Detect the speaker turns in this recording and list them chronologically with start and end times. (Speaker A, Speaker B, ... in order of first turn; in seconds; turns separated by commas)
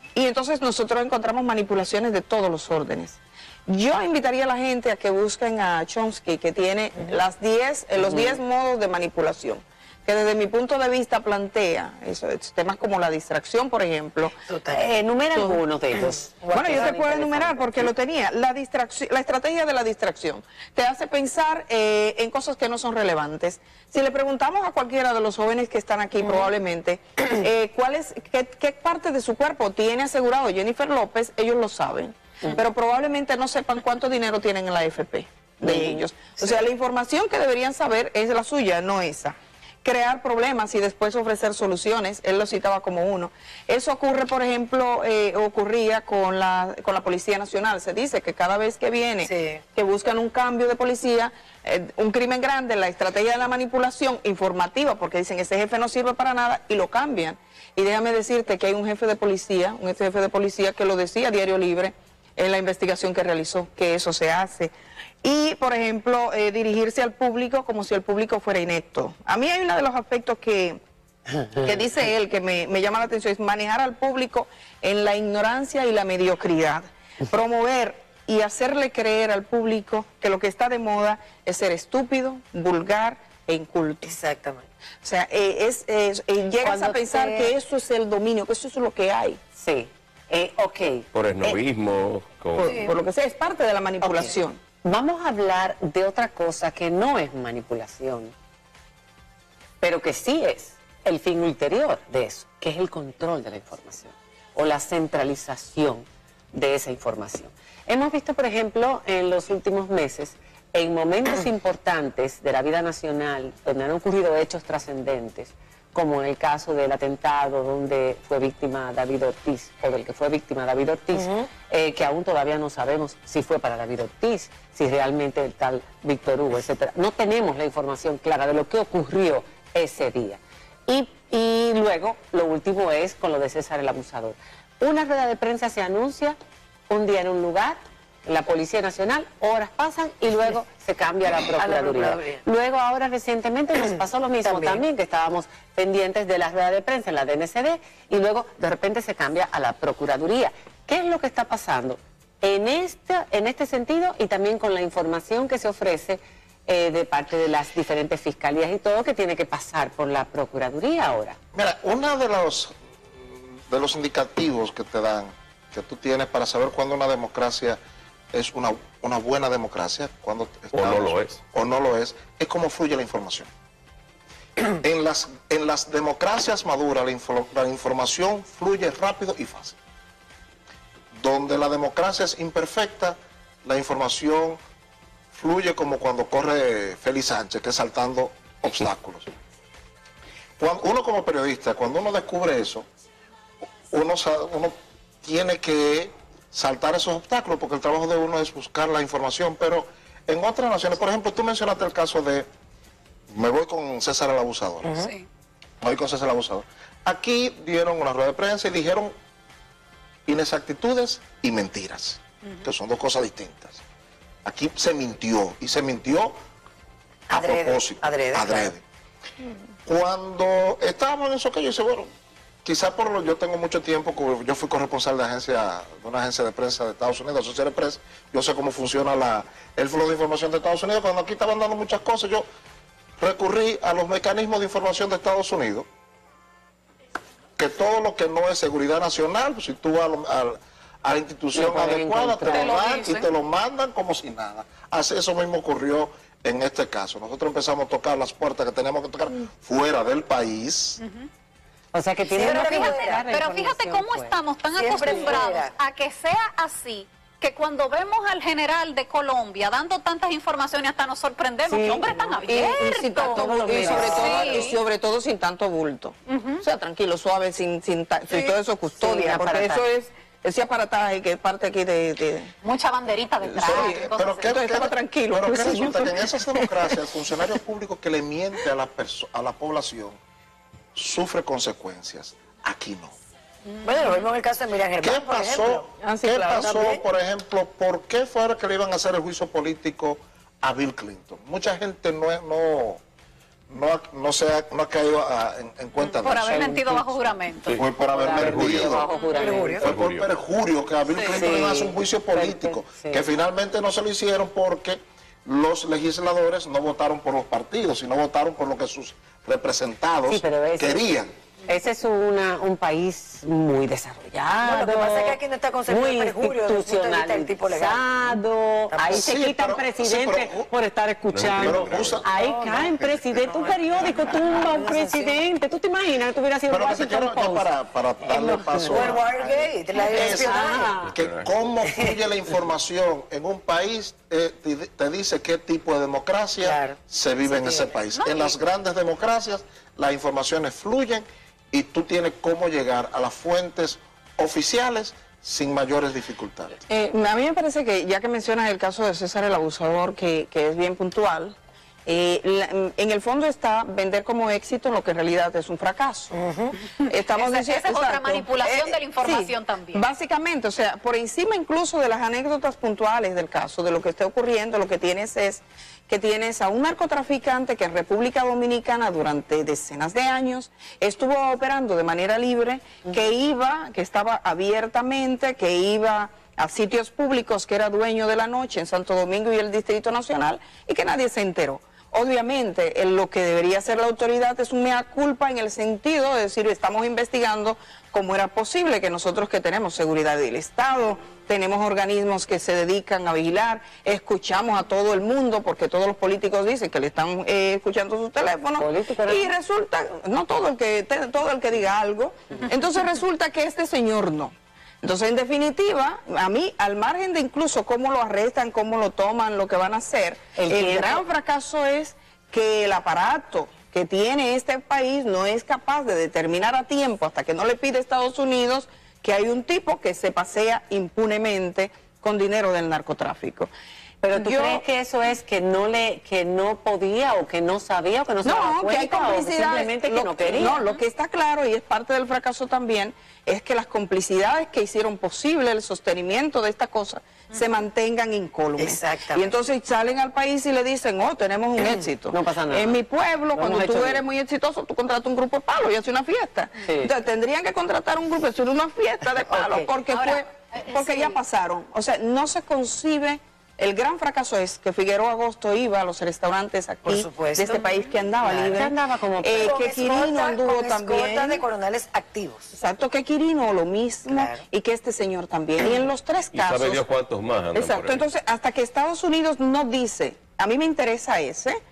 Speaker A: 0.1-14.4, Speaker B: 8.0-8.4, Speaker C: 14.4-14.9, Speaker B: 14.7-17.9, Speaker A: 15.3-15.6, Speaker C: 16.4-17.0, Speaker A: 16.5-70.8, Speaker B: 35.7-36.0, Speaker C: 49.2-49.6, Speaker A: 71.6-84.2, Speaker C: 84.0-84.7, Speaker A: 85.0-89.4, Speaker B: 86.6-87.5, Speaker B: 89.6-91.1, Speaker D: 91.1-92.7, Speaker A: 92.6-94.6, Speaker B: 94.0-98.3, Speaker B: 99.8-136.4, Speaker C: 121.1-121.5, Speaker B: 136.9-161.4, Speaker C: 141.5-142.4, Speaker C: 144.4-144.8, Speaker E: 161.5-167.8, Speaker E: 168.3-173.5, Speaker D: 170.7-171.4, Speaker E: 174.7-179.8, Speaker E: 181.2-184.6, Speaker E: 185.3-189.3, Speaker E: 190.6-192.9, Speaker E: 193.9-202.5, Speaker E: 203.3-205.0, Speaker C: 204.8-205.1, Speaker F: 204.9-205.3, Speaker E: 205.8-209.1, Speaker E: 210.3-213.8, Speaker E: 214.4-216.3, Speaker C: 217.3-218.8, Speaker E: 217.3-218.8, Speaker E: 219.9-222.1, Speaker E: 222.7-232.5, Speaker E: 233.2-235.9, Speaker E: 237.6-251.0, Speaker B: 241.5-242.8, Speaker F: 242.5-243.3, Speaker F: 251.0-251.3, Speaker B: 251.9-254.4, Speaker C: 252.3-253.3, Speaker F: 252.4-264.8, Speaker C: 254.8-255.7, Speaker B: 261.7-262.2, Speaker A: 261.9-272.5, Speaker B: 263.6-264.2, Speaker C: 263.8-264.7, Speaker F: 266.3-266.6, Speaker B: 269.0-269.9, Speaker F: 272.6-274.2, Speaker A: 273.4-277.0, Speaker E: 273.5-280.2, Speaker E: 281.0-283.1, Speaker C: 283.8-285.9, Speaker E: 285.0-293.0, Speaker A: 285.9-287.0, Speaker E: 293.7-296.7, Speaker F: 296.0-297.7, Speaker B: 296.4-299.8, Speaker D: 297.7-299.1, Speaker E: 297.7-299.1, Speaker F: 299.1-299.5, Speaker C: 299.3-299.9, Speaker E: 299.7-311.3, Speaker D: 299.7-300.3, Speaker F: 301.1-301.5, Speaker B: 301.3-303.2, Speaker B: 310.3-311.1, Speaker B: 311.7-327.7, Speaker C: 314.6-318.4, Speaker C: 318.9-319.3, Speaker E: 319.1-320.7, Speaker D: 321.3-322.2, Speaker E: 321.4-322.3, Speaker C: 322.2-325.4, Speaker E: 326.7-346.7, Speaker B: 328.2-329.2, Speaker C: 328.9-331.0, Speaker B: 330.0-331.1, Speaker D: 331.1-331.5, Speaker C: 336.6-337.0, Speaker F: 338.1-338.6, Speaker A: 346.9-356.4, Speaker C: 356.3-356.8, Speaker F: 356.8-360.1, Speaker A: 357.1-423.7, Speaker B: 398.8-399.5, Speaker B: 410.6-411.2, Speaker B: 424.2-430.8, Speaker A: 424.3-424.8, Speaker A: 428.4-461.7, Speaker C: 438.8-439.5, Speaker B: 441.8-443.0, Speaker C: 441.8-442.1, Speaker B: 443.5-444.2, Speaker B: 446.9-447.1, Speaker C: 449.5-449.9, Speaker F: 450.1-451.4, Speaker C: 457.1-457.8, Speaker B: 458.4-459.8, Speaker C: 458.4-458.8, Speaker C: 459.6-462.7, Speaker A: 462.7-467.0, Speaker C: 464.3-464.6, Speaker D: 466.5-468.3, Speaker A: 467.7-471.8